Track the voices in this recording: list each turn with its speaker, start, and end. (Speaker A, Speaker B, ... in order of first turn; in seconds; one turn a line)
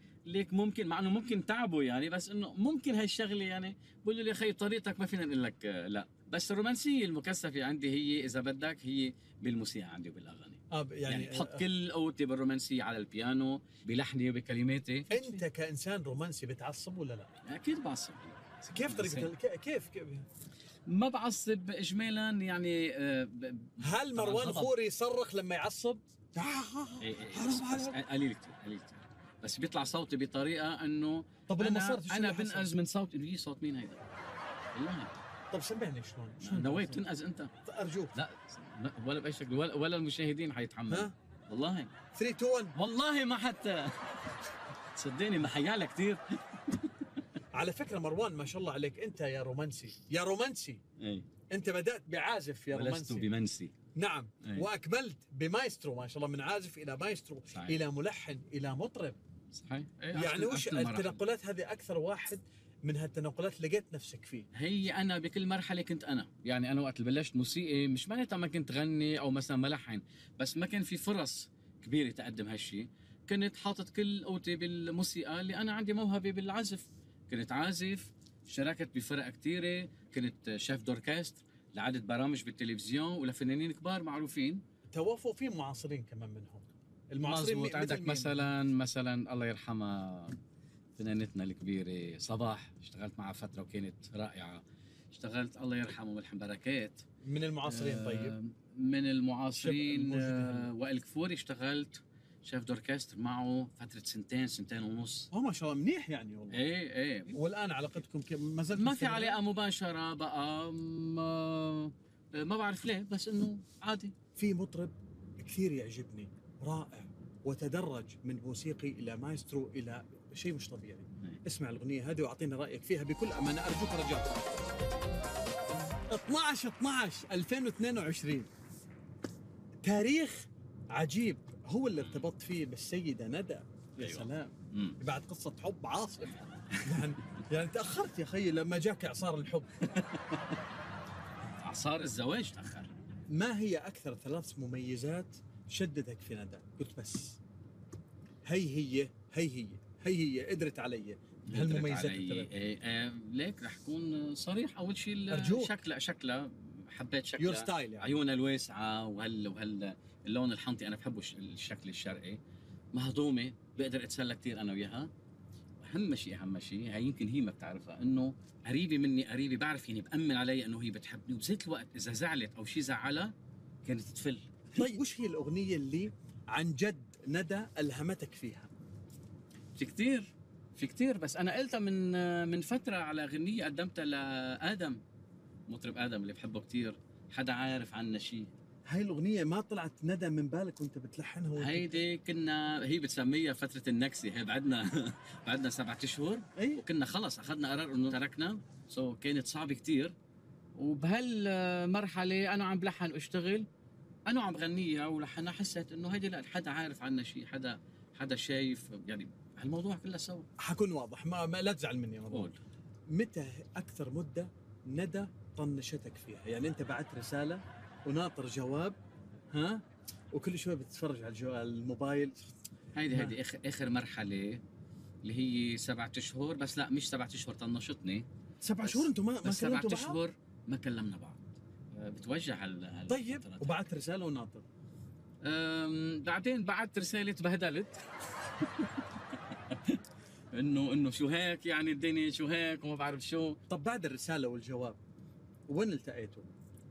Speaker A: 0.3-15.3
Speaker B: 10.7-11.7
Speaker B: 15.1-17.3
Speaker A: 17.5-19.3
Speaker B: 18.7-20.3
Speaker A: 20.9-24.7
Speaker B: 23.8-28.0
Speaker A: 27.0-34.0
Speaker B: 31.5-32.8
Speaker A: 34.8-35.1
Speaker B: 35.5-37.0
Speaker A: 36.4-37.5
Speaker B: 37.6-38.2
Speaker A: 38.1-41.9
Speaker B: 40.9-41.1
Speaker B: 42.1-42.8
Speaker A: 42.8-44.4
Speaker A: 44.9-46.9
Speaker B: 47.5-50.8
Speaker A: 51.0-51.3
Speaker B: 51.5-53.3
Speaker A: 52.7-53.7
Speaker B: 54.0-59.2
Speaker A: 54.4-54.7
Speaker A: 57.5-57.8
Speaker A: 59.5-61.2
Speaker B: 60.1-64.5
Speaker A: 64.5-84.6
Speaker B: 84.9-88.5
Speaker A: 87.2-90.4
Speaker A: 91.0-97.0
Speaker B: 97.2-98.4
Speaker A: 97.6-105.3
Speaker B: 99.6-100.7
Speaker B: 105.3-106.6
Speaker A: 106.5-107.4
Speaker B: 107.3-109.4
Speaker A: 108.7-114.2
Speaker B: 114.4-124.5
Speaker B: 126.1-128.5
Speaker B: 129.8-139.8
Speaker A: 132.0-132.3
Speaker A: 134.0-135.0
Speaker A: 139.9-140.4
Speaker A: 141.6-142.9
Speaker B: 143.3-147.4
Speaker B: 148.4-152.5
Speaker A: 151.5-162.4
Speaker B: 155.3-155.8
Speaker B: 157.4-158.1
Speaker A: 162.9-165.1
Speaker A: 165.8-173.3
Speaker A: 173.8-174.5
Speaker B: 174.8-178.7
Speaker A: 179.8-185.0
Speaker A: 185.7-188.5
Speaker B: 188.9-192.0
Speaker A: 191.6-200.2
Speaker B: 196.6-196.8
Speaker A: 200.8-203.7
Speaker A: 204.3-210.5
Speaker B: 210.6-212.5
Speaker A: 212.3-212.6
Speaker B: 213.1-219.0
Speaker B: 219.5-222.4
Speaker A: 222.9-224.6
Speaker B: 223.1-223.4
Speaker A: 225.2-228.3
Speaker B: 228.6-230.2
Speaker A: 228.8-231.4
Speaker A: 231.9-233.8
Speaker B: 233.1-234.7
Speaker A: 235.4-238.0
Speaker A: 238.6-240.0
Speaker A: 240.5-243.6
Speaker B: 243.7-245.0
Speaker B: 245.7-246.5